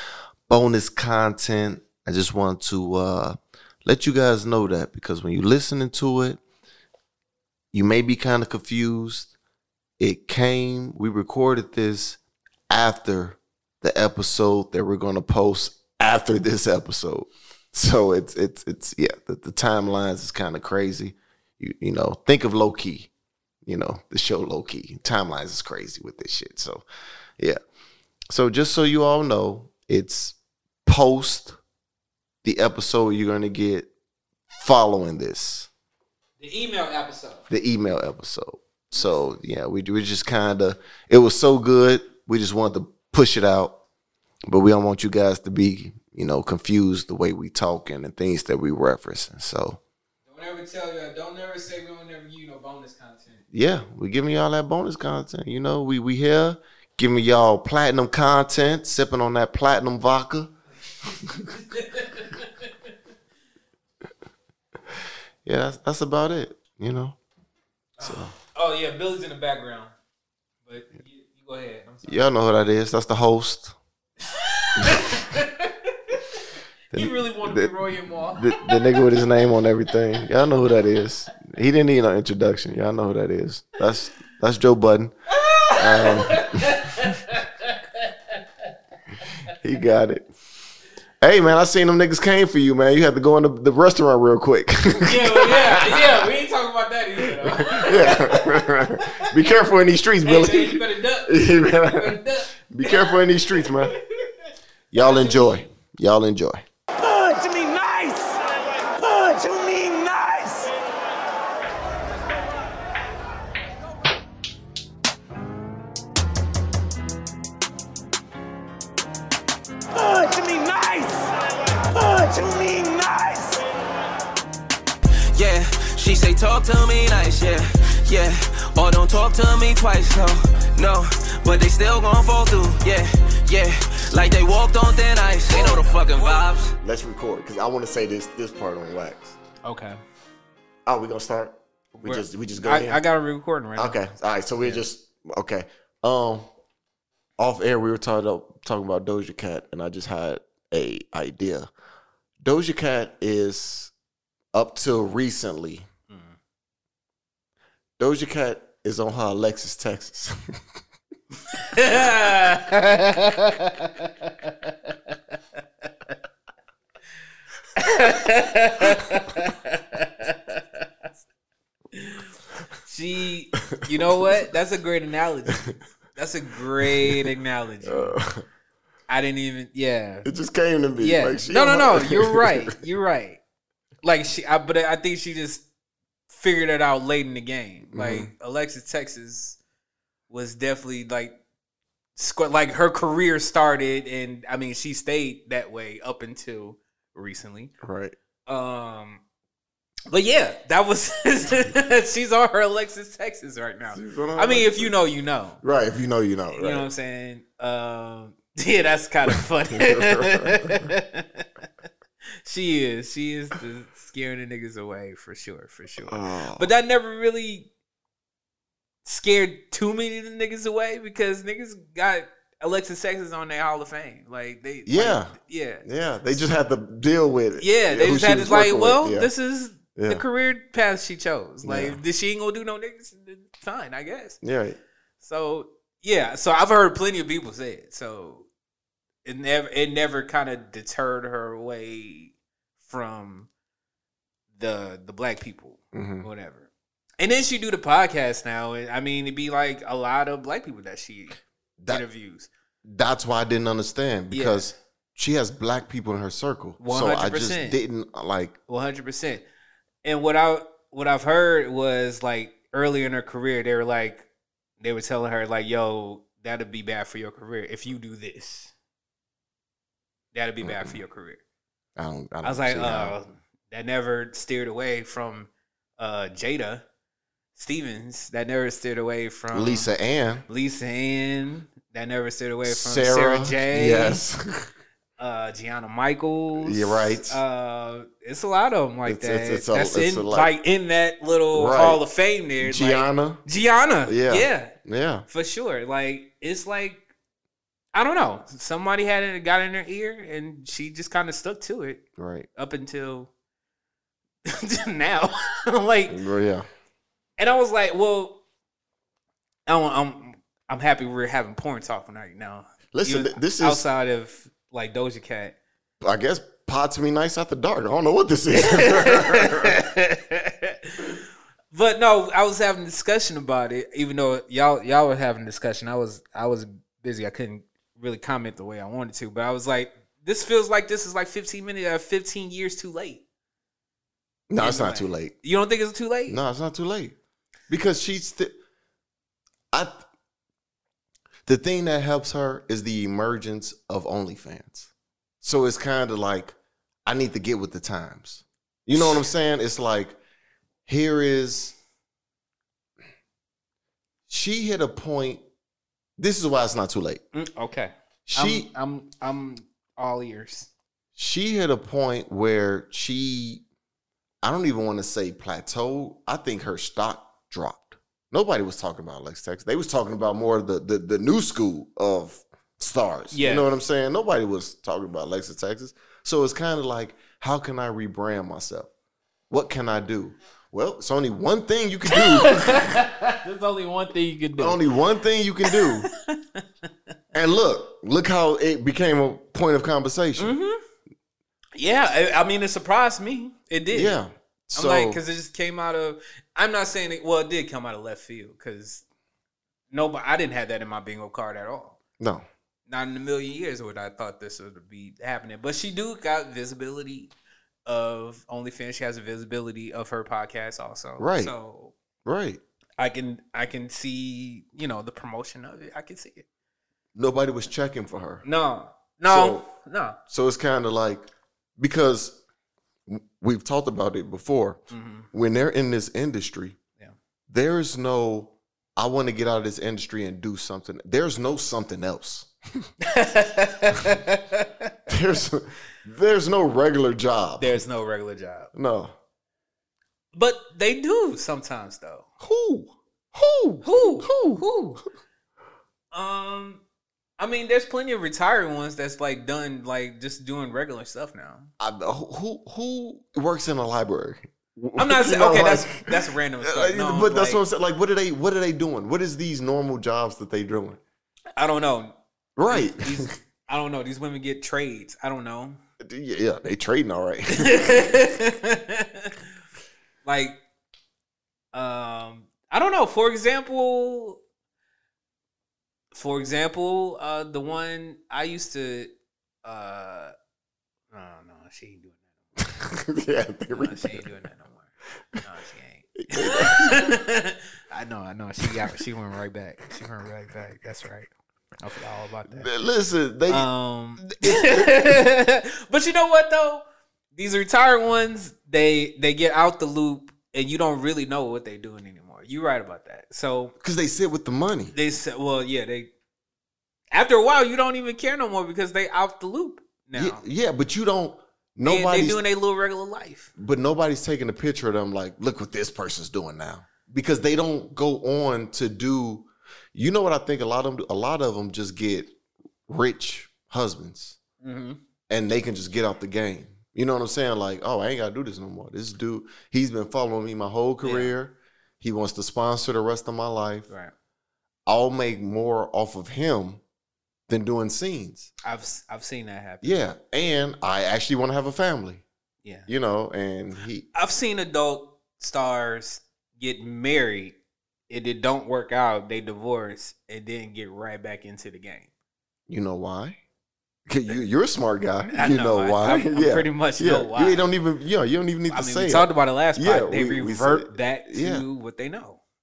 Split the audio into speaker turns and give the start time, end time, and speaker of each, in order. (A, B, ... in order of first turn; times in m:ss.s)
0:00.5-0:06.4 A
0:07.7-0:09.3 A
0:10.0-0:12.2 A
0:12.7-0:23.1 A
0:23.6-0:26.8 A
0:28.3-0:31.5 A
0:32.4-0:33.9 A
0:34.6-0:35.7 A
0:36.4-0:37.4 B
0:37.5-0:43.8 A
0:44.5-0:49.8 A
0:50.2-0:53.4 B
0:53.5-1:00.5 A
1:01.5-1:02.7 B
1:05.4-1:07.2 A
1:08.0-1:08.3 A
1:08.0-1:09.9 B
1:10.6-1:12.2 B
1:12.0-1:13.8 A
1:14.3-1:19.3 B
1:14.8-1:15.2 A
1:16.9-1:25.1 A
1:25.4-1:28.4 B
1:25.8-1:26.9 A
1:29.5-1:30.3 A
1:31.2-1:36.3 A
1:35.0-1:39.1 B
1:37.2-1:44.0 A
1:40.2-1:44.3 B
1:44.9-1:46.6 A
1:44.9-1:45.7 B
1:47.0-1:48.4 C
1:49.0-1:50.7 C
1:59.9-2:03.6 C
2:05.3-2:16.7 D
2:15.5-2:16.4 B
2:16.8-2:19.4 A
2:19.6-2:20.0 B
2:20.8-2:23.0 A
2:22.0-2:24.0 B
2:23.8-2:26.5 A
2:27.4-2:31.7 A
2:32.4-2:33.9 A
2:34.5-2:35.8 A
2:36.1-2:36.4 B
2:38.0-2:40.4 A
2:41.5-2:46.1 B
2:47.8-2:50.8 B
2:51.9-2:52.3 B
2:52.8-2:58.2 B
2:53.7-2:54.3 A
2:57.0-2:57.3 A
2:57.8-2:58.4 A
2:59.1-3:00.3 B
3:00.2-3:02.8 A
3:01.0-3:03.4 B
3:04.0-3:05.6 B
3:06.3-3:09.6 B
3:07.9-3:08.3 A
3:10.3-3:11.3 B
3:12.2-3:17.7 B
3:17.8-3:18.2 A
3:18.4-3:19.2 B
3:20.1-3:25.6 B
3:23.9-3:24.9 A
3:25.6-3:26.8 A
3:26.5-3:31.4 B
3:29.3-3:30.9 A
3:32.4-3:37.7 B
3:36.0-3:36.7 A
3:39.0-3:45.8 B
3:44.8-3:45.3 A
3:45.8-3:49.3 A
3:47.6-3:54.4 B
3:49.9-3:50.2 A
3:51.6-3:52.0 A
3:54.4-3:54.8 A
3:55.2-3:58.4 B
3:59.2-4:03.5 B
4:04.5-4:06.7 B
4:05.9-4:06.3 A
4:07.2-4:11.4 B
4:11.8-4:12.0 A
4:11.9-4:12.5 B
4:12.8-4:18.6 A
4:14.3-4:14.7 B
4:16.8-4:17.8 B
4:18.7-4:19.4 B
4:20.0-4:24.3 B
4:24.8-4:28.7 B
4:30.3-4:31.4 B
4:30.6-4:31.0 A
4:32.0-4:33.1 A
4:32.4-4:36.8 B
4:37.5-4:39.9 B
4:39.5-4:40.4 A
4:40.5-4:44.2 B
4:42.6-4:44.7 A
4:45.2-4:54.7 B
4:46.6-4:47.4 A
4:49.0-4:50.5 A
4:51.5-4:52.0 A
4:52.6-4:53.4 A
4:54.0-4:55.2 A
4:55.3-4:57.0 B
4:57.9-5:02.0 B
5:02.2-5:02.5 A
5:02.6-5:03.3 B
5:04.5-5:06.2 B
5:06.1-5:06.6 A
5:07.4-5:08.4 B
5:09.6-5:15.5 B
5:12.9-5:13.8 A
5:16.0-5:19.8 A
5:18.6-5:33.2 B
5:34.5-5:35.3 A
5:34.6-5:36.4 B
5:36.3-5:37.2 A
5:37.7-5:38.5 A
5:39.7-5:40.0 A
5:41.4-5:44.9 A
5:45.4-5:46.5 A
5:47.0-5:50.2 A
5:49.0-5:49.2 B
5:50.8-5:51.8 A
5:54.3-5:55.4 A
5:56.2-5:57.2 A
5:57.3-6:00.7 B
5:58.3-5:58.7 A
6:01.2-6:03.6 A
6:04.4-6:18.9 A
6:13.3-6:13.7 B
6:19.5-6:23.0 A
6:22.1-6:24.8 B
6:24.6-6:26.1 A
6:25.7-6:26.4 B
6:27.3-6:30.6 A
6:30.4-6:30.8 B
6:31.8-6:34.2 B
6:33.9-6:35.2 A
6:34.7-6:39.0 B
6:39.9-6:42.0 B
6:42.2-6:42.4 A
6:42.9-6:47.3 B
6:47.8-6:51.9 B
6:51.2-6:51.5 A
6:52.2-6:52.6 A
6:53.0-6:56.4 B
6:57.1-6:58.4 A
6:58.4-7:00.2 B
6:59.3-6:59.6 A
7:00.3-7:01.2 A
7:01.8-7:02.4 A
7:03.1-7:06.8 A
7:04.9-7:05.3 B
7:07.5-7:12.9 A
7:13.0-7:14.9 B
7:15.1-7:17.8 A
7:17.6-7:18.7 B
7:18.7-7:19.1 A
7:20.3-7:22.3 B
7:22.4-7:24.6 A
7:23.8-7:25.0 B
7:26.1-7:26.8 B
7:27.4-7:31.7 B
7:31.8-7:41.0 A
7:35.0-7:37.6 B
7:41.6-7:42.1 B
7:42.6-7:43.3 A
7:42.7-7:45.8 B
7:46.0-7:48.2 A
7:47.5-7:49.4 B
7:50.2-7:50.6 B
7:51.7-7:54.4 B
7:56.1-7:59.1 B
7:59.6-8:00.3 B
8:01.1-8:02.2 B
8:02.7-8:04.3 A
8:03.7-8:12.7 B
8:06.3-8:07.0 A
8:12.5-8:13.7 A
8:13.5-8:16.8 B
8:14.2-8:15.2 A
8:17.3-8:23.7 B
8:23.8-8:24.9 A
8:24.9-8:26.1 B
8:27.1-8:30.4 B
8:30.1-8:32.4 A
8:31.8-8:33.5 B
8:33.6-8:42.4 A
8:42.9-8:44.4 A
8:44.6-8:45.0 B
8:45.3-8:53.9 A
8:51.0-8:51.3 B
8:54.8-8:56.8 A
8:57.5-8:58.5 A
8:58.6-9:00.0 B
8:59.8-9:02.2 A
9:02.9-9:04.0 A
9:04.1-9:07.6 B
9:08.1-9:12.1 B
9:12.7-9:13.4 A
9:14.1-9:21.6 A
9:15.3-9:17.7 B
9:18.7-9:22.4 B